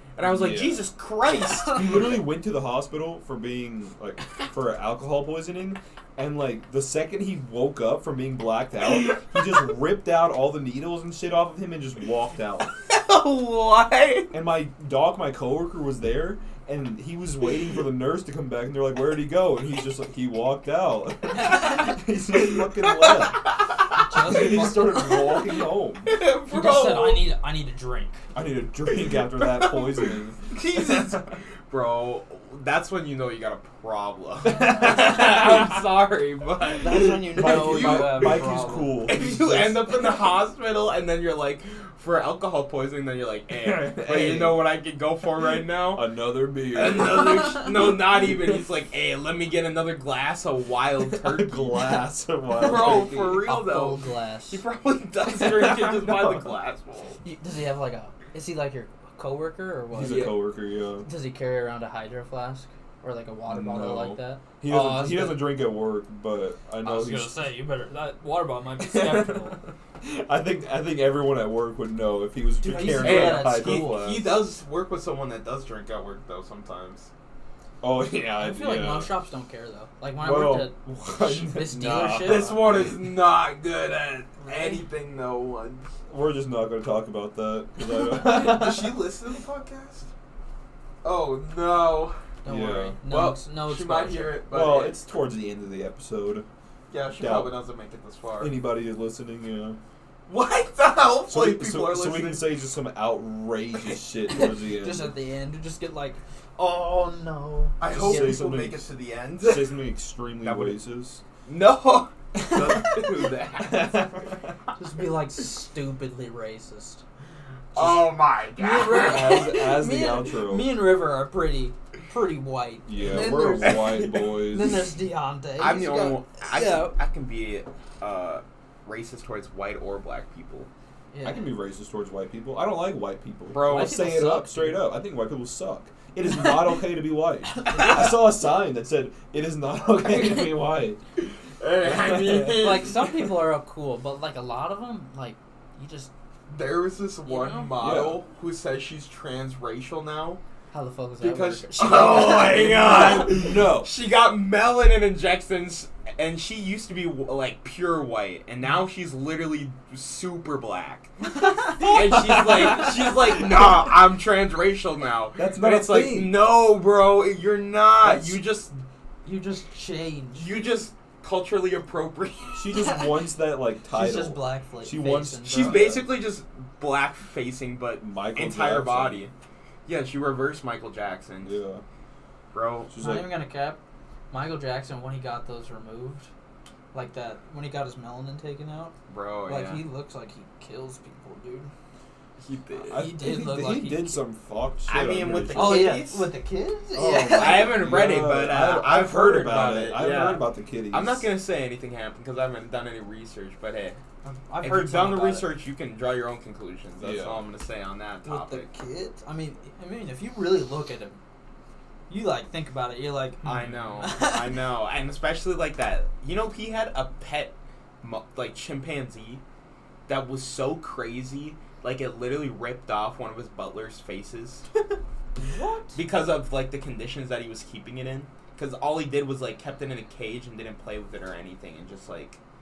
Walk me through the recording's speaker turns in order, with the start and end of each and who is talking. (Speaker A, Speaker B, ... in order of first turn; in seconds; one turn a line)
Speaker A: 0.2-2.2
Speaker B: 0.2-0.9
Speaker B: 1.7-12.7
Speaker A: 12.9-14.3
Speaker B: 14.3-23.5
Speaker C: 21.3-22.0
Speaker A: 22.3-24.0
Speaker C: 24.0-25.3
Speaker B: 24.1-26.1
Speaker A: 26.0-27.3
Speaker C: 26.5-28.2
Speaker B: 28.4-31.2
Speaker A: 28.9-38.5
Speaker B: 34.5-35.8
Speaker C: 36.8-39.0
Speaker B: 37.0-40.0
Speaker A: 39.0-46.1
Speaker B: 43.5-44.6
Speaker B: 45.9-48.4
Speaker A: 46.7-57.2
Speaker B: 51.1-53.5
Speaker C: 52.6-54.6
Speaker B: 55.3-56.5
Speaker C: 57.2-60.4
Speaker B: 59.9-61.1
Speaker A: 60.0-60.4
Speaker C: 61.0-65.5
Speaker B: 63.5-67.5
Speaker C: 66.8-69.6
Speaker B: 68.8-74.4
Speaker C: 72.6-74.0
Speaker A: 72.8-77.1
Speaker B: 77.8-79.1
Speaker C: 78.4-82.5
Speaker B: 80.2-83.0
Speaker A: 82.2-85.9
Speaker C: 84.5-84.8
Speaker B: 86.1-89.0
Speaker A: 88.0-90.1
Speaker A: 91.0-92.2
Speaker C: 92.4-94.4
Speaker B: 92.5-93.0
Speaker A: 93.1-95.0
Speaker B: 94.5-96.5
Speaker A: 96.9-98.6
Speaker B: 97.1-97.5
Speaker B: 98.4-99.8
Speaker A: 100.3-102.5
Speaker B: 101.3-105.1
Speaker C: 104.3-108.5
Speaker A: 107.8-109.8
Speaker B: 107.9-108.9
Speaker B: 109.4-111.2
Speaker A: 110.4-110.8
Speaker A: 111.5-114.1
Speaker B: 112.5-113.0
Speaker B: 113.6-114.3
Speaker C: 114.8-117.0
Speaker A: 117.7-119.5
Speaker B: 117.8-118.1
Speaker C: 118.6-127.0
Speaker B: 118.9-120.8
Speaker B: 122.9-124.9
Speaker A: 123.2-124.5
Speaker A: 125.6-130.7
Speaker C: 131.1-131.5
Speaker B: 131.2-141.0
Speaker A: 133.5-134.0
Speaker C: 133.7-134.9
Speaker C: 137.6-138.2
Speaker A: 141.6-143.3
Speaker B: 141.8-142.7
Speaker C: 142.6-146.1
Speaker A: 146.5-150.4
Speaker C: 147.3-147.8
Speaker B: 147.8-148.2
Speaker C: 150.7-153.3
Speaker A: 151.2-161.1
Speaker B: 152.6-153.9
Speaker A: 161.8-168.8
Speaker B: 161.8-163.7
Speaker B: 165.4-166.4
Speaker B: 168.0-168.4
Speaker C: 169.2-170.5
Speaker A: 170.4-172.9
Speaker B: 172.6-176.1
Speaker C: 172.8-173.1
Speaker C: 173.9-175.9
Speaker A: 175.5-179.3
Speaker B: 178.0-179.2
Speaker A: 179.9-181.6
Speaker B: 181.4-181.8
Speaker A: 182.5-182.9
Speaker B: 182.9-183.3
Speaker C: 183.0-183.8
Speaker C: 184.3-186.3
Speaker C: 186.9-188.9
Speaker A: 189.1-189.8
Speaker C: 189.5-191.7
Speaker A: 192.4-193.1
Speaker B: 192.9-196.0
Speaker C: 192.9-194.2
Speaker A: 194.9-196.3
Speaker C: 195.5-197.8
Speaker B: 196.9-201.3
Speaker A: 197.3-204.0
Speaker C: 204.2-205.5
Speaker A: 204.6-208.7
Speaker B: 207.0-207.4
Speaker C: 208.2-211.2
Speaker C: 212.1-214.5
Speaker A: 213.4-219.4
Speaker A: 220.1-224.7
Speaker C: 225.4-226.0
Speaker A: 225.9-232.4